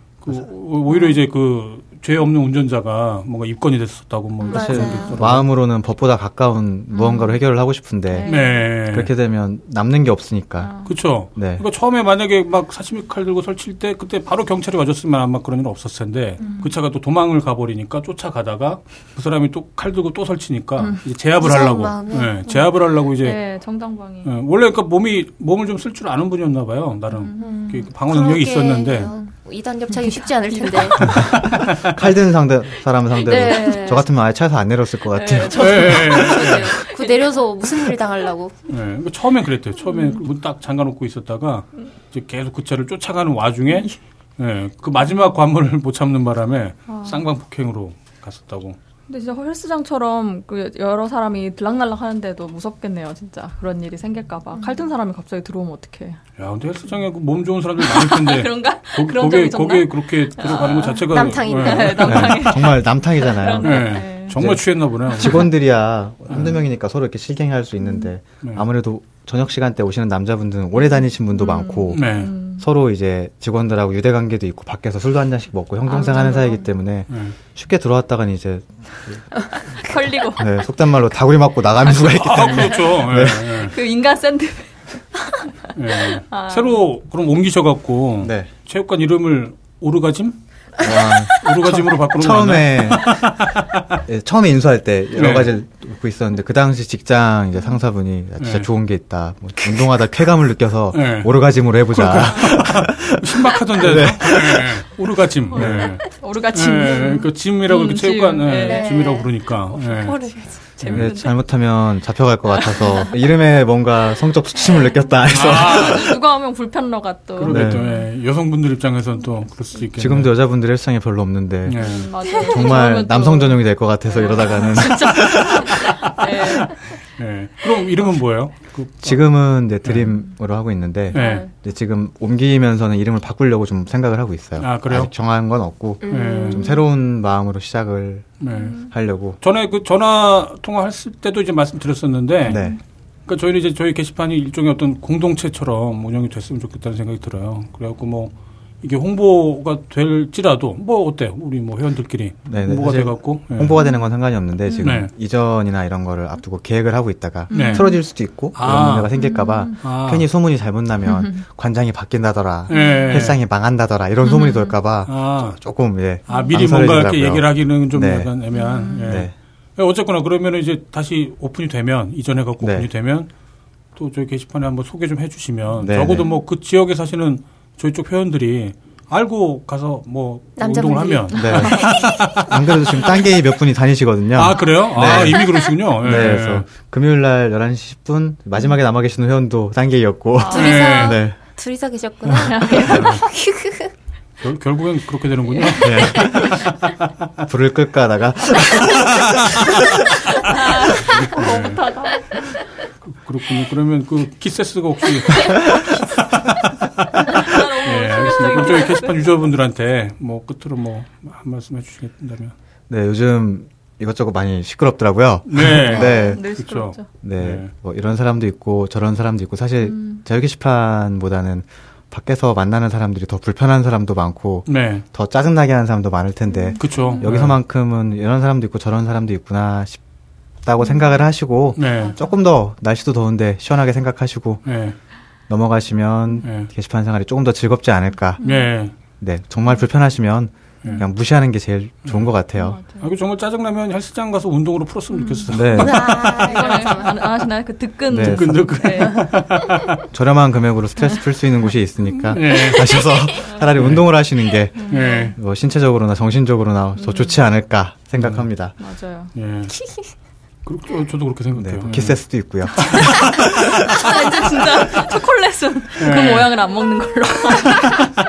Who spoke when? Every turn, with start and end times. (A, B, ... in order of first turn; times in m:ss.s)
0:00.2-0:05.5 A
0:04.4-0:05.2 B
0:04.5-0:10.7 C
0:08.1-0:08.7 D
0:08.3-0:09.1 A
0:10.6-0:10.9 D
0:10.8-0:23.4 A
0:11.4-0:11.6 C
0:16.4-0:16.7 D
0:21.4-0:22.4 B
0:23.2-0:24.3 D
0:24.2-0:29.1 A
0:27.1-0:27.8 D
0:27.4-0:31.4 B
0:30.5-0:31.3 D
0:31.0-0:32.0 A
0:31.8-0:36.3 C
0:33.1-0:34.1 B
0:33.3-0:33.9 D
0:35.1-0:37.9 D
0:35.5-0:38.5 B
0:35.5-0:36.8 A
0:38.7-0:48.8 A
0:39.9-0:40.2 D
0:46.9-0:47.2 D
0:49.1-0:56.2 D
0:56.4-1:02.5 A
0:57.8-1:04.4 D
1:01.0-1:02.4 B
1:02.0-1:19.2 C
1:03.6-1:05.5 A
1:06.3-1:06.6 A
1:11.4-1:12.6 D
1:11.9-1:12.3 A
1:15.9-1:16.6 D
1:17.1-1:17.4 A
1:19.8-1:20.7 D
1:20.4-1:23.7 C
1:21.9-1:23.8 A
1:23.4-1:26.9 D
1:25.8-1:30.4 A
1:28.2-1:28.5 C
1:30.8-1:33.3 C
1:31.0-1:31.5 D
1:31.3-1:34.0 A
1:34.1-1:44.8 C
1:35.2-1:35.6 A
1:38.4-1:38.7 A
1:40.9-1:41.4 A
1:41.9-1:50.2 A
1:45.5-1:51.4 D
1:45.5-1:46.0 C
1:48.5-1:49.3 B
1:49.9-1:50.4 B
1:50.8-1:51.1 A
1:50.9-1:56.1 C
1:52.7-1:53.1 D
1:55.3-1:56.2 A
1:55.4-1:58.0 D
1:57.4-2:00.3 A
1:57.4-1:57.9 C
2:00.0-2:05.8 C
2:01.7-2:02.1 A
2:01.8-2:06.8 D
2:02.3-2:02.8 B
2:05.4-2:09.3 A
2:09.0-2:19.4 C
2:09.8-2:10.1 A
2:11.1-2:11.5 A
2:11.1-2:11.5 D
2:14.6-2:15.1 A
2:16.0-2:16.8 B
2:16.1-2:16.7 A
2:18.4-2:18.9 A
2:18.5-2:18.9 D
2:19.4-2:22.6 A
2:22.5-2:22.8 C
2:23.3-2:33.8 A
2:32.5-2:48.3 C
2:34.8-2:35.1 A
2:37.5-2:38.0 D
2:37.5-2:37.8 A
2:38.5-2:39.1 A
2:39.3-2:39.8 D
2:39.7-2:40.3 A
2:41.1-2:41.4 D
2:42.7-2:43.3 D
2:42.7-2:43.4 A
2:44.3-2:44.7 D
2:45.1-2:45.6 A
2:46.3-2:46.6 D
2:46.4-2:53.3 A
2:48.6-2:49.2 D
2:49.0-2:49.3 C
2:52.6-2:52.9 C
2:54.0-3:03.1 A
2:55.8-2:56.3 C
3:00.6-3:02.4 B
3:01.4-3:11.4 C
3:04.4-3:06.7 A
3:05.1-3:05.7 B
3:10.4-3:11.2 D
3:10.5-3:13.9 B
3:10.5-3:11.2 A
3:12.4-3:13.1 D
3:12.8-3:13.2 A
3:14.4-3:17.1 A
3:15.8-3:16.6 C
3:15.9-3:16.5 B
3:17.4-3:19.8 C
3:19.0-3:19.9 A
3:20.5-3:22.5 D
3:20.9-3:21.8 A
3:23.0-3:32.5 A
3:27.3-3:29.3 D
3:32.9-3:36.5 C
3:35.5-3:37.7 A
3:35.8-3:37.1 D
3:37.2-3:50.0 C
3:44.7-3:45.0 A
3:46.7-3:47.2 D
3:46.8-3:47.6 A
3:50.6-3:54.6 C
3:51.8-3:52.2 A
3:54.7-3:55.0 A
3:55.5-3:58.4 C
3:56.4-3:56.7 A
3:58.4-3:58.7 D
3:58.4-3:58.9 A
3:59.2-4:02.8 C
4:02.6-4:03.0 D
4:03.0-4:06.5 A
4:05.1-4:09.3 D
4:05.5-4:06.4 C
4:05.7-4:07.3 B
4:08.1-4:10.0 A
4:08.1-4:08.6 C
4:10.1-4:18.8 C
4:12.2-4:13.1 A
4:13.0-4:13.4 B
4:13.8-4:14.1 A
4:14.8-4:15.4 D
4:14.9-4:15.3 A
4:17.0-4:17.4 D
4:18.2-4:18.4 A
4:18.8-4:19.3 D
4:19.4-4:19.8 A
4:19.7-4:20.1 B
4:20.6-4:22.2 A
4:21.6-4:23.8 C
4:22.7-4:28.0 D
4:23.0-4:24.5 A
4:26.0-4:26.6 A
4:27.6-4:28.1 A